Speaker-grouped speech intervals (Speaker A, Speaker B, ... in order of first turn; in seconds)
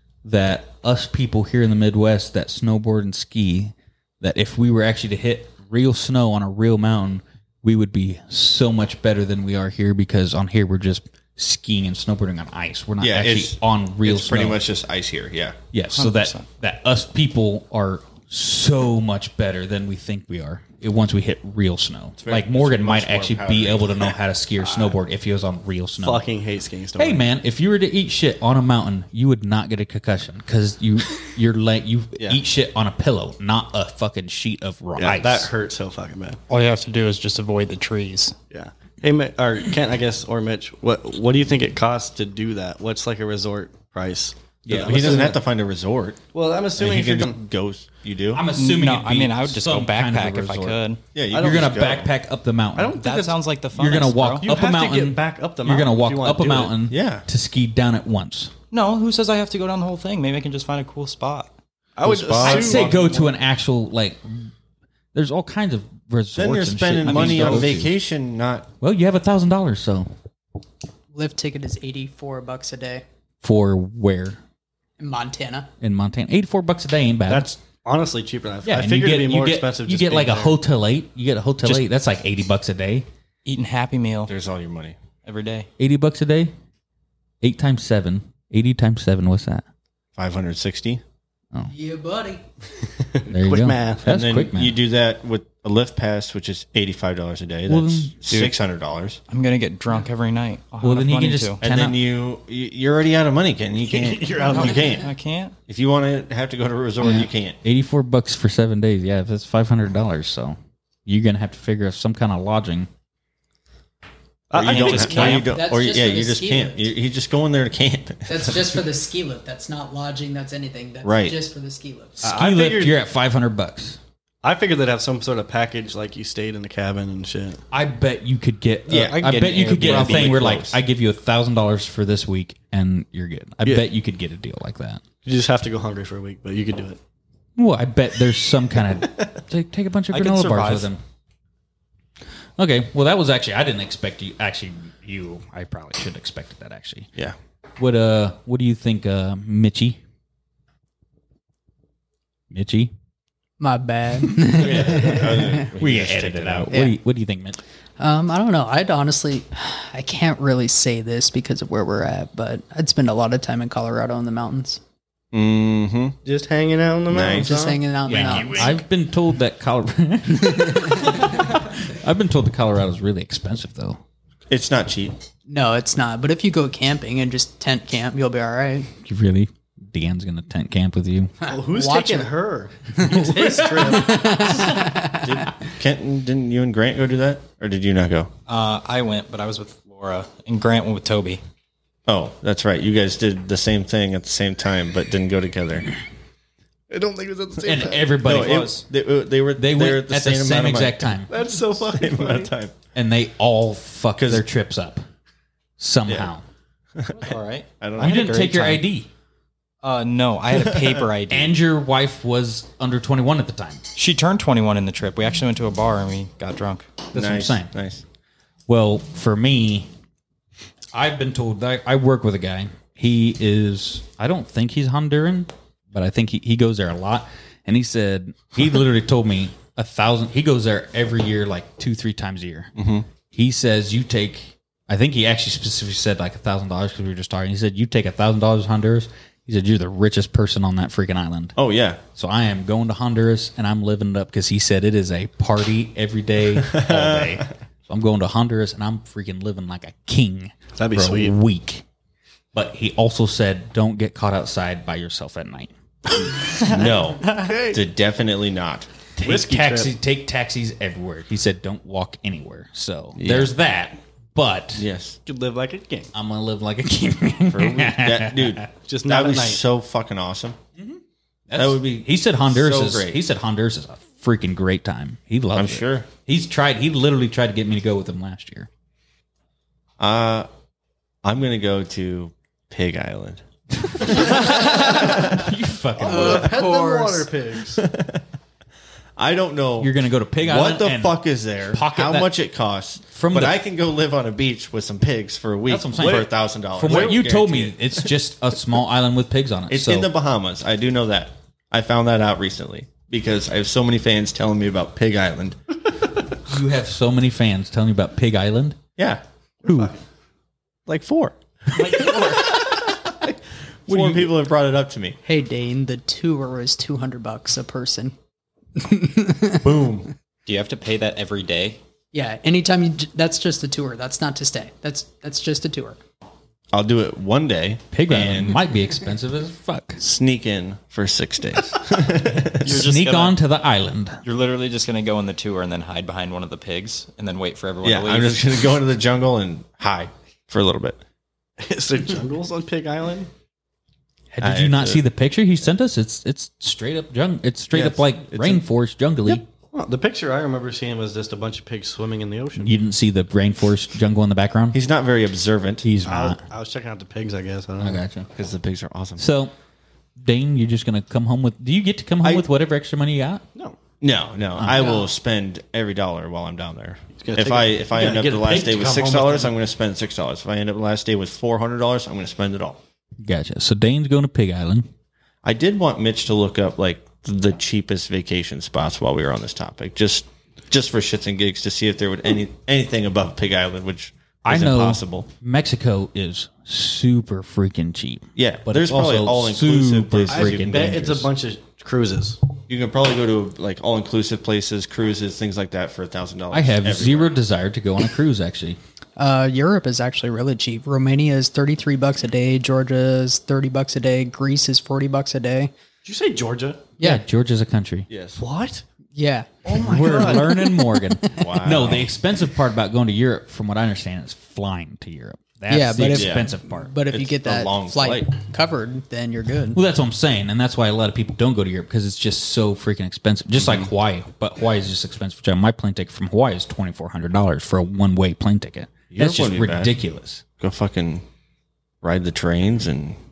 Speaker A: 0.2-14.6, 15.7-26.3, 27.0-35.5, 44.6-45.4, 48.3-50.8, 51.3-53.0, 53.8-58.5, 62.0-64.5, 65.1-68.0, 68.8-70.1, 73.4-74.4, 75.8-77.5, 78.7-83.1, 85.8-86.5, 87.4-89.6, 93.3-94.8, 97.7-98.2, 100.8-102.0, 107.0-112.9, 122.2-124.0, 127.7-135.0, 137.6-141.0, 142.6-147.1, 147.8-150.0, 152.5-152.9, 155.1-157.6, 168.1-174.0, 179.0-181.3, 183.1-184.2, 197.6-198.8, 199.6-201.3, 202.9-205.0, 205.8-206.4, 208.0-209.1, 211.3-213.8, 217.1-217.7, 218.7-219.9, 220.9-232.7, 233.3-241.6, 242.2-251.8, 252.5-255.7, 259.2-264.9, 266.1-268.7, 270.8-278.7, 283.8-286.5, 289.8-292.3, 293.1-293.6, 295.7-300.1, 306.4-308.8, 309.6-309.9, 313.9-314.4, 327.9-330.0, 332.7-334.2, 344.3-349.4, 352.6-354.8, 355.8-356.4, 357.8-358.3, 359.2-359.5, 360.2-363.4, 364.6-365.0, 368.0-368.7, 373.2-374.9, 384.4-391.3, 396.5-398.8, 407.0-408.1, 409.8-416.9, 419.7-430.4
Speaker B: 13.0-15.6, 22.2-24.2, 44.7-46.2, 46.8-48.4, 51.1-52.1, 56.9-57.2, 62.1-62.8, 66.3-68.7, 84.3-85.0, 90.2-91.0, 94.0-99.2, 101.6-105.1, 105.7-107.6, 114.5-118.8, 121.0-121.4, 128.9-130.8, 154.6-156.7, 165.3-166.2, 167.1-167.8, 174.5-175.2, 185.2-188.3, 192.1-195.9, 198.2-202.8, 204.2-204.5, 207.0-208.5, 210.5-211.1, 217.1-218.0, 232.8-233.1, 241.6-242.0, 246.6-247.5, 256.6-258.9, 263.2-263.5, 264.8-265.2, 267.5-270.6, 271.6-273.2, 275.5-276.1, 280.0-280.5, 281.2-283.4, 284.0-285.5, 287.8-288.2, 289.2-298.1, 299.7-306.1, 309.0-309.2, 310.9-315.2, 319.6-320.1, 326.7-328.6, 330.0-332.8, 337.8-341.0, 344.4-345.0, 347.7-348.6, 354.7-355.9, 358.3-359.2, 364.0-372.8, 375.4-385.3, 388.4-391.1, 392.7-397.4, 408.1-408.4, 411.4-412.1, 416.1-416.5, 417.1-418.3, 429.1-429.9, 430.6-431.2, 432.0-433.2
Speaker C: 16.0-16.4, 36.5-38.4, 48.5-51.0, 53.0-54.5, 58.7-61.5, 83.5-84.3, 85.2-85.7, 99.3-101.6, 104.5-105.6, 114.6-115.5, 129.1-130.4, 140.1-140.9, 188.5-191.4, 198.3-198.8, 207.2-208.8, 209.8-211.6, 213.9-217.0, 311.8-312.5, 320.5-321.8, 332.6-333.4, 334.2-338.7
Speaker D: 26.0-27.3, 35.0-36.4, 38.5-45.4, 46.3-47.4, 52.8-53.4, 54.4-56.8, 62.0-63.3, 77.3-80.6, 93.2-94.0, 103.9-105.0, 114.5-115.4, 122.2-123.0, 124.4-127.6, 135.2-137.0, 166.2-167.7, 181.5-184.5, 196.9-198.2, 201.3-202.5, 250.8-251.3, 256.2-256.7, 257.3-257.8, 259.2-259.9, 265.3-266.1, 268.9-269.6, 284.4-285.0, 286.0-287.9, 296.9-297.2, 309.7-309.9, 341.6-343.3, 349.7-352.7, 356.1-358.0, 367.2-369.5, 390.3-392.4, 406.0-406.9, 408.4-408.9, 409.6-410.6
Speaker E: 71.1-73.0, 75.0-75.7, 91.7-92.5, 115.4-116.9, 118.3-122.2, 153.6-155.7, 156.7-157.0, 158.0-164.8, 167.3-168.8, 170.5-171.2, 175.5-178.9, 181.4-182.3, 183.8-185.4, 286.1-287.3, 315.2-318.1, 318.8-319.7, 322.1-326.0, 399.2-405.7, 409.1-411.4, 415.7-419.8